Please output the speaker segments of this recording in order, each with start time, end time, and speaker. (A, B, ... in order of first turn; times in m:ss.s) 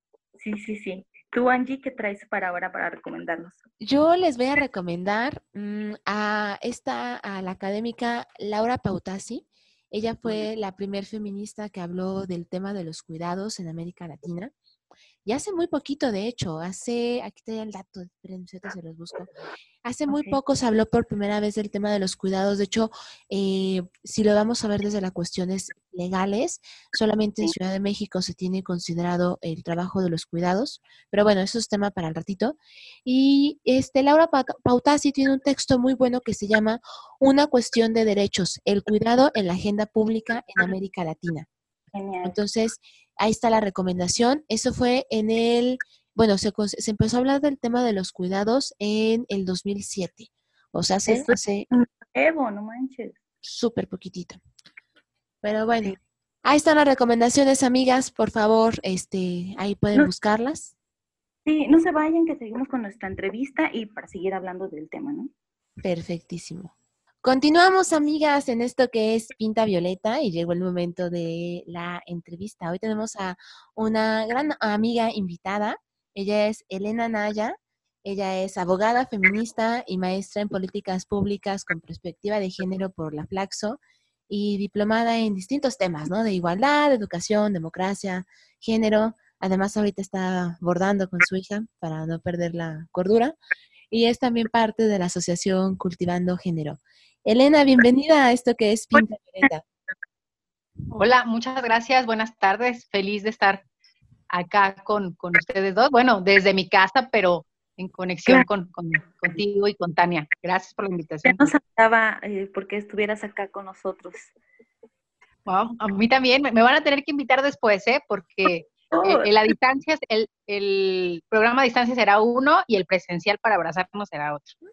0:00.4-0:03.6 A
0:03.8-0:14.5 B
0:15.2-0:19.3 B
0:19.8-0:41.5 B
0:20.1-0:20.4 A
0:41.9-0:42.4 A
0:42.2-0:51.7 B
0:51.1-0:53.2 A
0:53.4-0:54.4 B
0:55.4-1:00.7 B
1:01.5-1:05.3 A
1:05.8-1:33.4 B
1:33.9-1:39.6 B
1:38.9-1:39.5 A
1:40.9-1:43.6 C
1:44.3-1:51.5 C
1:51.2-1:54.3 A
1:55.5-2:04.6 C
1:58.9-1:59.3 A